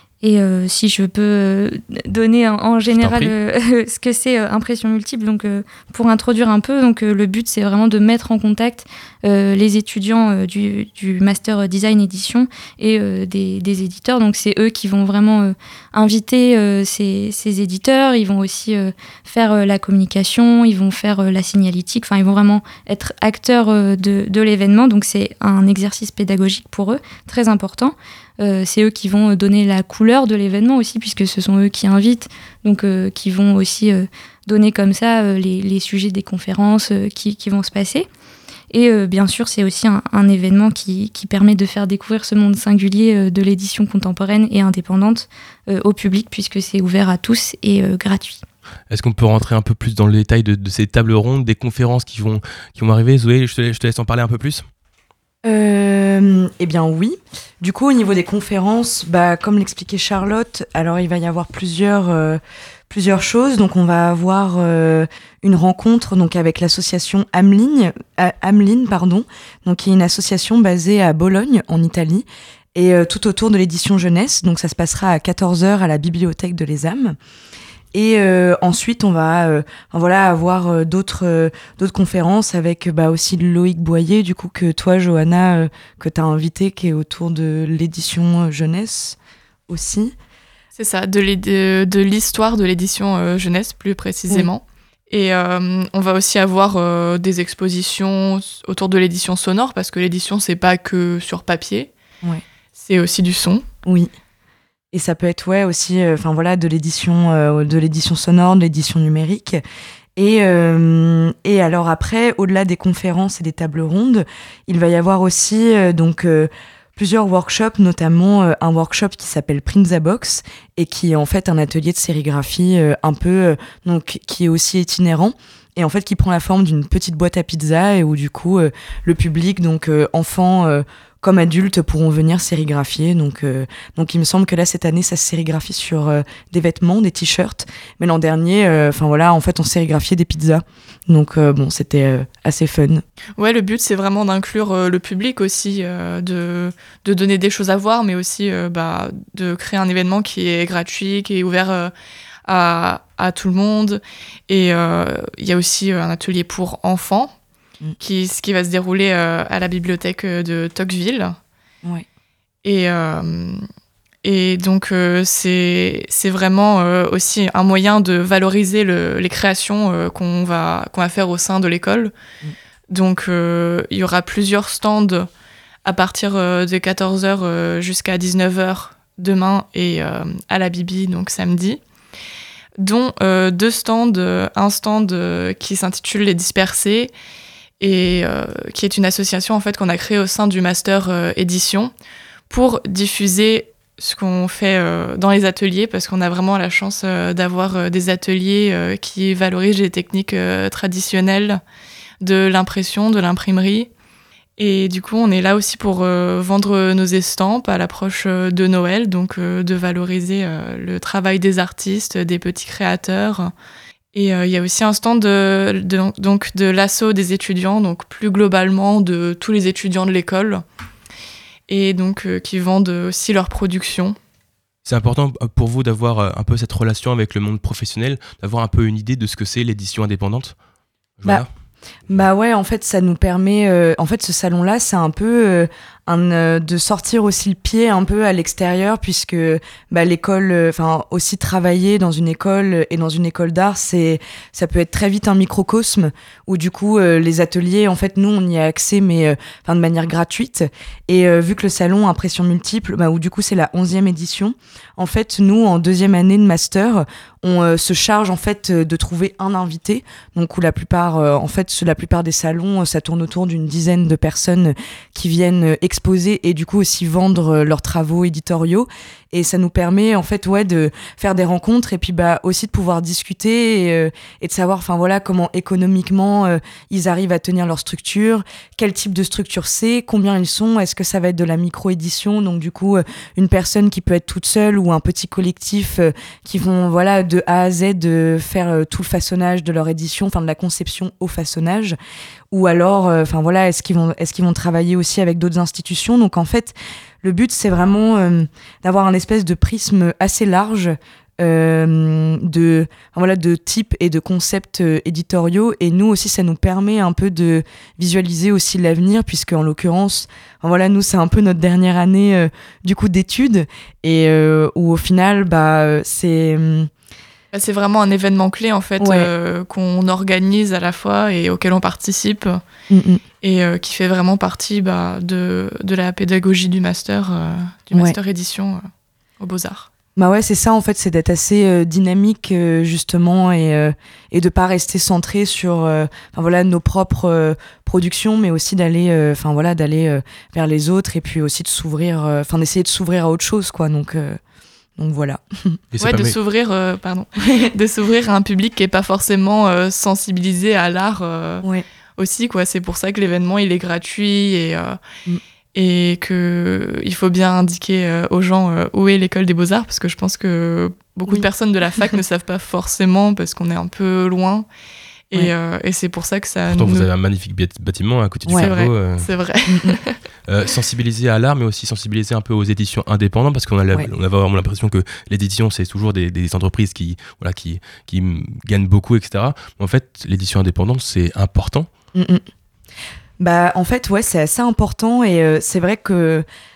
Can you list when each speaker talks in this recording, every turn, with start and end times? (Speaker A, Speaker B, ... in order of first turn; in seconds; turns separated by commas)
Speaker A: 0.2-38.1, Speaker B: 2.9-3.3, Speaker A: 38.7-48.4, Speaker B: 48.9-54.6, Speaker C: 55.4-77.2, Speaker C: 77.9-89.2, Speaker C: 89.7-90.1, Speaker D: 90.7-101.9, Speaker D: 102.7-103.7, Speaker C: 103.8-104.1, Speaker C: 104.9-109.6, Speaker C: 110.2-143.0, Speaker D: 143.4-151.9, Speaker D: 152.4-157.3, Speaker D: 158.0-161.4, Speaker D: 162.6-163.7, Speaker D: 164.2-172.1, Speaker D: 172.9-175.3, Speaker D: 175.8-181.8, Speaker D: 182.8-187.1, Speaker D: 187.8-191.9, Speaker D: 192.5-201.6, Speaker D: 202.2-203.9, Speaker D: 204.6-213.5, Speaker D: 214.1-220.6, Speaker D: 221.7-224.2, Speaker B: 224.8-230.5, Speaker B: 231.2-231.5, Speaker C: 232.1-291.9, Speaker C: 292.5-316.9, Speaker D: 317.5-322.6, Speaker C: 319.0-319.3, Speaker C: 322.9-323.2, Speaker D: 323.4-328.9, Speaker C: 327.9-328.2, Speaker D: 329.4-329.9, Speaker C: 330.1-344.4, Speaker C: 345.0-345.8, Speaker B: 345.9-346.4, Speaker D: 346.0-351.6, Speaker D: 352.2-355.0, Speaker D: 355.7-364.7, Speaker C: 361.3-362.1, Speaker D: 365.3-367.1, Speaker B: 366.7-369.3, Speaker C: 368.5-368.7, Speaker D: 368.6-370.2, Speaker C: 369.7-369.9, Speaker B: 370.5-381.9, Speaker C: 382.1-382.4, Speaker C: 383.4-386.4